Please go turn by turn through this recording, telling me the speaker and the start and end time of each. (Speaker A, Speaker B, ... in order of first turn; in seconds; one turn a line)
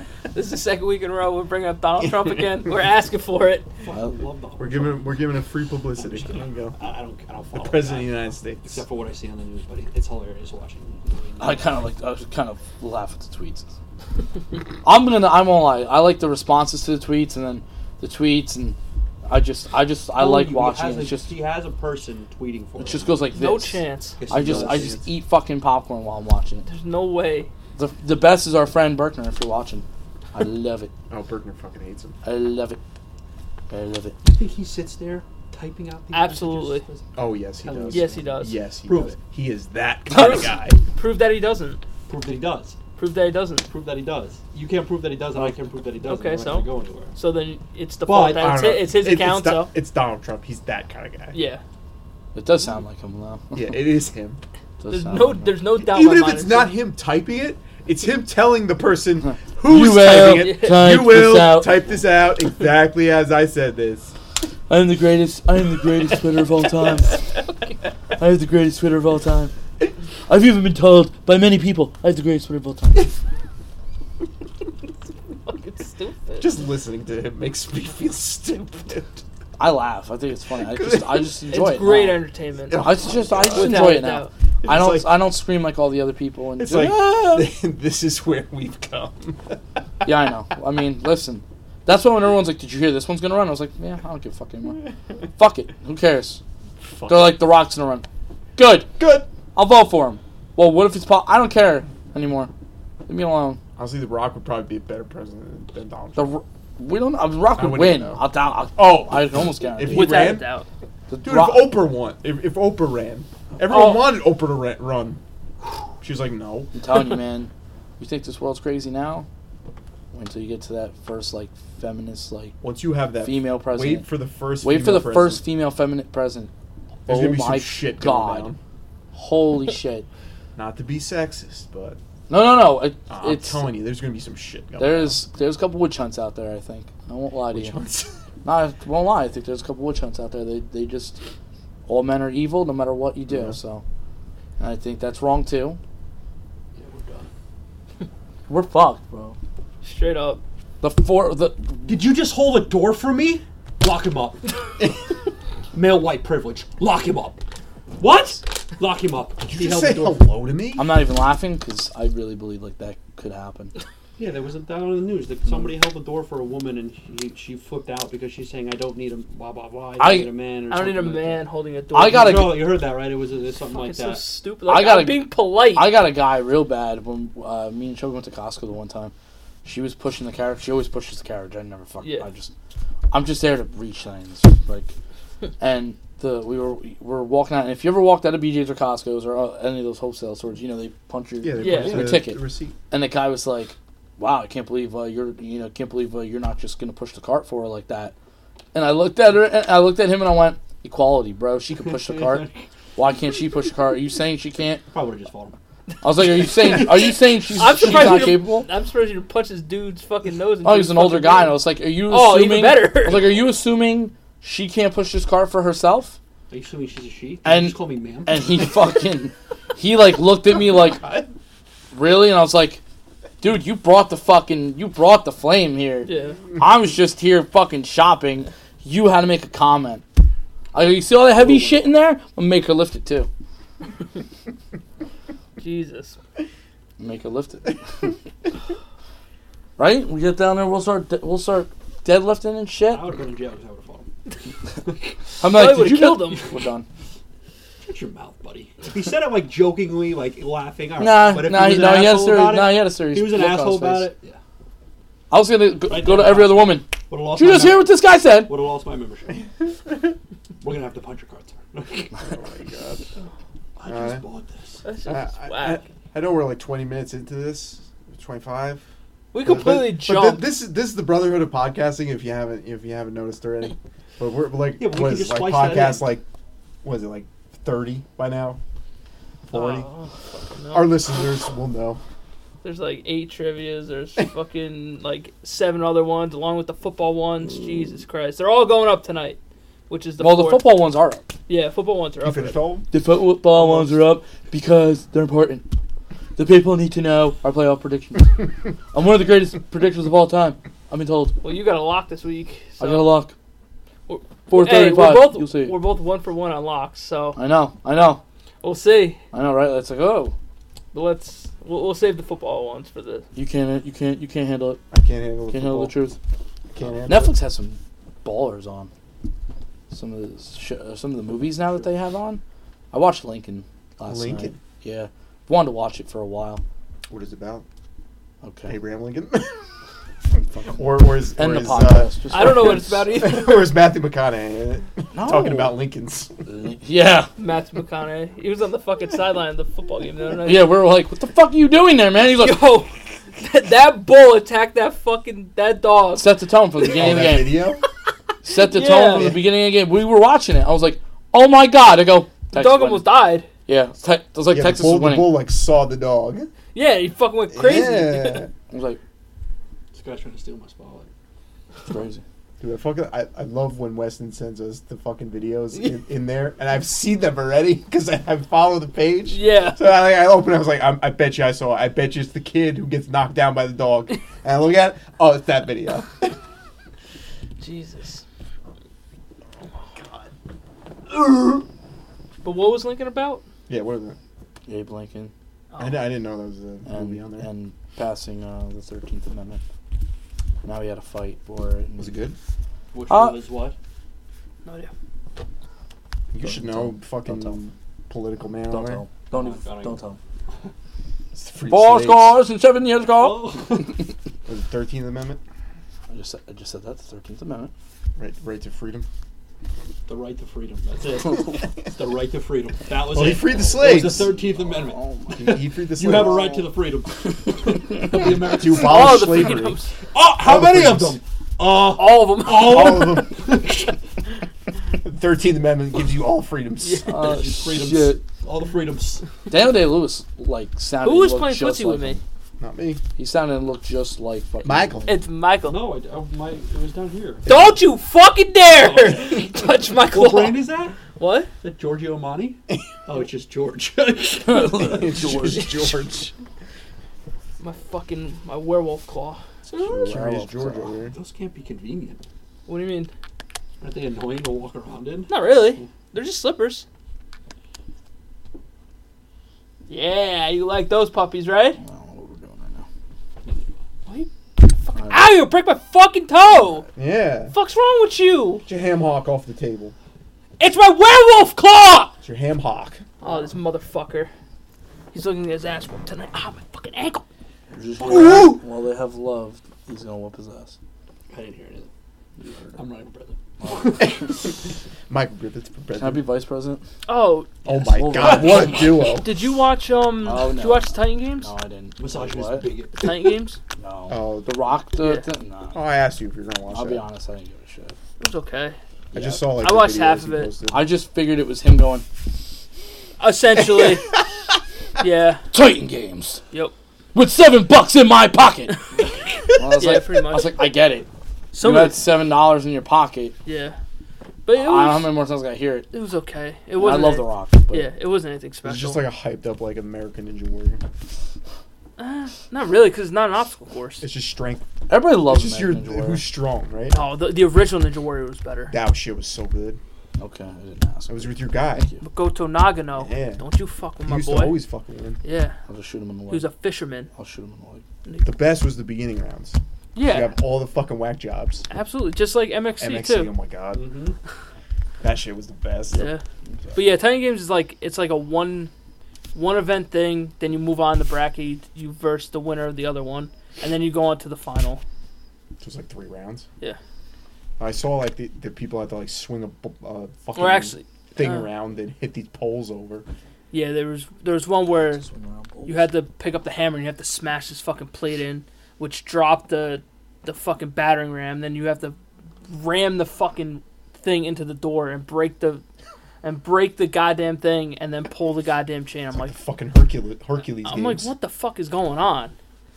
Speaker A: 0.3-3.7
Speaker B: 3.8-5.2
Speaker C: 4.6-6.8
Speaker B: 6.0-11.8
Speaker C: 7.5-8.8
Speaker D: 11.4-13.7
Speaker D: 14.8-21.3
Speaker B: 20.1-23.3
Speaker D: 22.8-26.7
Speaker A: 23.4-24.2
Speaker B: 24.2-25.0
Speaker C: 24.3-25.0
Speaker A: 26.7-27.5
Speaker D: 27.8-30.9
Speaker C: 31.1-32.2
Speaker D: 32.2-32.8
Speaker D: 33.7-34.2
Speaker B: 34.2-39.2
Speaker A: 36.1-36.9
Speaker C: 37.2-40.8
Speaker A: 37.9-38.6
Speaker A: 40.1-41.8
Speaker D: 40.1-40.4
Speaker B: 42.1-42.8
Speaker A: 43.0-43.7
Speaker B: 43.7-47.1
Speaker A: 46.0-49.7
Speaker B: 48.1-48.4
Speaker C: 48.1-51.4
Speaker A: 51.3-51.6
Speaker D: 52.4-53.7
Speaker C: 53.5-54.4
Speaker D: 54.8-55.6
Speaker A: 54.9-56.7
Speaker C: 55.8-64.1
Speaker D: 59.6-61.9
Speaker A: 60.3-60.7
Speaker D: 64.7-67.3
Speaker D: 68.2-69.5
Speaker D: 70.3-73.1
Speaker A: 75.5-76.6
Speaker C: 76.4-79.2
Speaker D: 79.6-82.2
Speaker C: 80.7-81.3
Speaker A: 81.5-84.3
Speaker C: 82.7-84.0
Speaker D: 82.8-87.5
Speaker C: 84.6-85.3
Speaker C: 86.6-89.6
Speaker D: 90.0-94.8
Speaker D: 95.4-96.4
Speaker C: 96.8-97.4
Speaker D: 97.1-98.1
Speaker D: 98.6-99.0
Speaker C: 99.0-99.3
Speaker D: 99.5-102.5
Speaker D: 103.1-103.6
Speaker C: 103.8-106.3
Speaker D: 106.2-110.4
Speaker C: 107.5-108.2
Speaker C: 108.8-110.5
Speaker A: 109.9-110.7
Speaker D: 111.1-111.8
Speaker C: 111.2-115.2
Speaker A: 113.7-114.1
Speaker C: 116.0-116.7
Speaker D: 116.8-119.3
Speaker D: 120.1-122.6
Speaker C: 122.6-125.4
Speaker D: 123.2-124.1
Speaker D: 124.6-126.5
Speaker C: 127.1-128.6
Speaker D: 127.1-128.5
Speaker D: 129.1-130.1
Speaker C: 130.6-132.0
Speaker D: 132.3-133.7
Speaker C: 133.1-135.2
Speaker D: 134.8-137.8
Speaker C: 137.5-138.2
Speaker D: 138.4-141.2
Speaker D: 141.9-143.8
Speaker C: 143.3-143.6
Speaker D: 144.6-145.8
Speaker B: 146.8-147.3
Speaker D: 148.5-149.4
Speaker A: 149.8-150.4
Speaker D: 150.8-151.9
Speaker B: 151.9-154.9
Speaker B: 155.7-157.4
Speaker B: 158.0-160.3
Speaker C: 159.5-160.9
Speaker D: 160.8-163.7
Speaker B: 164.2-174.2
Speaker D: 170.0-170.3
Speaker A: 170.7-172.6
Speaker D: 171.9-172.8
Speaker A: 173.7-175.9
Speaker D: 174.7-179.1
Speaker D: 179.6-182.5
Speaker D: 183.1-184.9
Speaker D: 185.6-198.1
Speaker C: 191.4-192.8
Speaker A: 191.6-192.1
Speaker D: 198.7-204.8
Speaker B: 201.9-202.5
Speaker B: 204.9-205.6
Speaker D: 206.0-208.7
Speaker A: 207.6-213.3
Speaker D: 210.6-216.2
Speaker B: 216.5-218.4
Speaker D: 217.4-221.1
Speaker D: 221.9-222.8
Speaker D: 223.4-230.1
Speaker A: 226.1-226.4
Speaker D: 230.7-233.3
Speaker B: 231.4-231.9
Speaker A: 235.6-236.2
Speaker D: 237.0-238.1
Speaker D: 239.8-243.1
Speaker B: 242.9-244.1
Speaker D: 245.4-246.9
Speaker A: 245.4-246.5
Speaker B: 247.8-254.4
Speaker D: 251.0-254.1
Speaker D: 255.3-258.5
Speaker B: 255.9-259.4
Speaker B: 260.6-262.3
Speaker C: 262.3-263.1
Speaker B: 263.8-264.9
Speaker C: 263.9-264.2
Speaker A: 264.8-265.8
Speaker C: 265.1-268.8
Speaker A: 269.3-270.5
Speaker C: 269.4-276.2
Speaker B: 274.8-276.1
Speaker C: 276.8-278.6
Speaker C: 279.5-279.9
Speaker A: 279.5-280.9
Speaker C: 280.7-282.0
Speaker A: 282.6-289.4
Speaker A: 289.9-290.6
Speaker D: 290.2-291.3
Speaker A: 291.5-292.6
Speaker C: 292.2-292.9
Speaker D: 292.9-295.7
Speaker D: 296.4-301.4
Speaker A: 301.4-303.1
Speaker D: 302.8-303.3
Speaker A: 304.1-307.4
Speaker D: 304.5-305.8
Speaker D: 307.4-308.2
Speaker A: 308.6-309.2
Speaker D: 309.3-310.4
Speaker A: 310.9-313.2
Speaker D: 313.4-314.8
Speaker C: 314.9-316.0
Speaker D: 315.5-316.2
Speaker C: 316.7-317.3
Speaker D: 317.1-318.9
Speaker D: 319.9-322.4
Speaker D: 322.9-326.6
Speaker C: 324.1-324.6
Speaker C: 327.1-327.6
Speaker D: 328.4-328.8
Speaker C: 328.7-329.6
Speaker D: 330.6-330.8
Speaker C: 330.7-336.3
Speaker D: 331.3-333.0
Speaker A: 332.3-333.7
Speaker D: 335.1-335.8
Speaker D: 336.5-337.3
Speaker A: 337.4-340.7
Speaker D: 340.4-342.6
Speaker A: 342.3-346.3
Speaker D: 346.1-347.6
Speaker C: 346.9-347.8
Speaker D: 348.4-353.1
Speaker A: 348.6-349.3
Speaker C: 349.1-349.4
Speaker A: 352.5-353.5
Speaker D: 353.7-355.4
Speaker C: 354.5-356.5
Speaker A: 356.7-358.5
Speaker C: 357.5-358.5
Speaker D: 358.7-359.0
Speaker B: 359.9-361.1
Speaker D: 361.9-362.2
Speaker C: 362.6-376.4
Speaker A: 369.3-369.9
Speaker A: 377.6-378.2
Speaker A: 381.1-381.6
Speaker A: 382.4-383.4
Speaker C: 383.7-384.2
Speaker D: 384.7-385.3
Speaker A: 385.7-386.1
Speaker C: 385.8-387.5
Speaker D: 386.9-389.6
Speaker D: 390.6-392.2
Speaker C: 392.0-392.4
Speaker B: 392.9-393.8
Speaker D: 393.1-393.4
Speaker A: 394.6-394.9
Speaker C: 396.3-399.0
Speaker D: 396.4-397.6
Speaker D: 398.7-400.2
Speaker B: 399.3-400.0
Speaker C: 401.3-402.4
Speaker D: 401.7-403.9
Speaker B: 403.2-404.0
Speaker C: 404.5-405.4
Speaker D: 406.1-407.7
Speaker C: 408.2-409.1
Speaker B: 410.1-419.4
Speaker C: 413.0-414.3
Speaker D: 414.2-415.4
Speaker C: 415.3-416.5
Speaker D: 416.1-416.6
Speaker C: 418.4-419.8
Speaker A: 418.5-419.9
Speaker B: 420.1-424.0
Speaker C: 420.4-421.2
Speaker A: 421.9-423.2
Speaker C: 422.4-423.6
Speaker C: 425.0-427.2
Speaker D: 427.1-428.2
Speaker B: 427.1-429.3
Speaker D: 429.5-432.2
Speaker A: 431.0-432.2
Speaker C: 432.6-433.0
Speaker D: 433.2-435.1
Speaker C: 434.6-435.2
Speaker A: 435.1-435.9
Speaker B: 435.6-437.5
Speaker A: 437.5-441.5
Speaker C: 437.5-437.7
Speaker B: 438.7-439.5
Speaker B: 440.1-441.0
Speaker B: 441.6-445.2
Speaker D: 444.5-445.7
Speaker C: 444.8-446.3
Speaker A: 447.6-449.4
Speaker B: 449.7-450.1
Speaker D: 449.8-451.0
Speaker C: 450.0-451.1
Speaker B: 451.1-452.2
Speaker A: 452.7-453.1
Speaker B: 453.8-455.9
Speaker A: 455.3-456.9
Speaker A: 459.9-461.8
Speaker D: 461.8-462.9
Speaker A: 464.1-466.9
Speaker D: 464.9-465.2
Speaker C: 467.0-467.5
Speaker A: 467.5-468.6
Speaker C: 468.7-469.9
Speaker A: 470.6-472.1
Speaker C: 472.2-473.0
Speaker A: 473.2-474.3
Speaker A: 475.1-477.2
Speaker D: 477.7-480.8
Speaker B: 478.0-478.6
Speaker B: 481.3-481.9
Speaker D: 482.4-482.8
Speaker B: 482.8-484.4
Speaker D: 483.6-484.1
Speaker C: 484.0-484.5
Speaker C: 485.1-486.2
Speaker D: 486.0-486.9
Speaker A: 487.1-491.5
Speaker C: 487.6-489.3
Speaker D: 487.8-489.1
Speaker D: 490.2-492.7
Speaker B: 492.0-493.3
Speaker A: 493.0-493.6
Speaker D: 493.8-495.8
Speaker C: 494.1-494.5
Speaker A: 495.0-495.2
Speaker C: 495.7-497.0
Speaker D: 496.7-498.0
Speaker A: 498.2-498.8
Speaker D: 499.1-499.4
Speaker C: 499.1-500.9
Speaker A: 499.5-500.5
Speaker D: 500.7-502.1
Speaker A: 503.2-504.1
Speaker A: 505.0-505.4
Speaker D: 505.5-506.4
Speaker D: 507.1-508.8
Speaker A: 509.0-510.7
Speaker D: 509.6-511.1
Speaker A: 511.5-512.0
Speaker D: 511.6-513.4
Speaker A: 513.5-513.8
Speaker A: 514.5-515.1
Speaker D: 514.5-515.9
Speaker A: 515.9-519.0
Speaker D: 516.8-517.9
Speaker C: 518.6-520.8
Speaker A: 522.0-524.1
Speaker C: 524.0-527.1
Speaker D: 524.9-526.3
Speaker A: 526.9-528.8
Speaker C: 528.7-529.8
Speaker D: 530.2-532.0
Speaker C: 531.1-531.9
Speaker A: 532.0-534.6
Speaker C: 533.0-533.4
Speaker C: 534.0-535.2
Speaker A: 535.2-535.6
Speaker D: 535.7-536.5
Speaker A: 536.3-537.1
Speaker D: 537.1-537.8
Speaker C: 538.2-541.6
Speaker A: 540.0-540.4
Speaker A: 541.7-543.3
Speaker C: 542.8-543.8
Speaker B: 543.7-544.2
Speaker C: 545.0-546.1
Speaker A: 545.9-546.2
Speaker A: 546.7-548.7
Speaker A: 549.3-554.8
Speaker C: 555.6-556.5
Speaker C: 557.6-563.0
Speaker A: 560.4-561.5
Speaker A: 563.5-565.1
Speaker D: 564.9-565.8
Speaker A: 565.7-572.0
Speaker A: 572.5-575.6
Speaker A: 576.2-579.3
Speaker C: 579.1-581.1
Speaker A: 580.6-582.3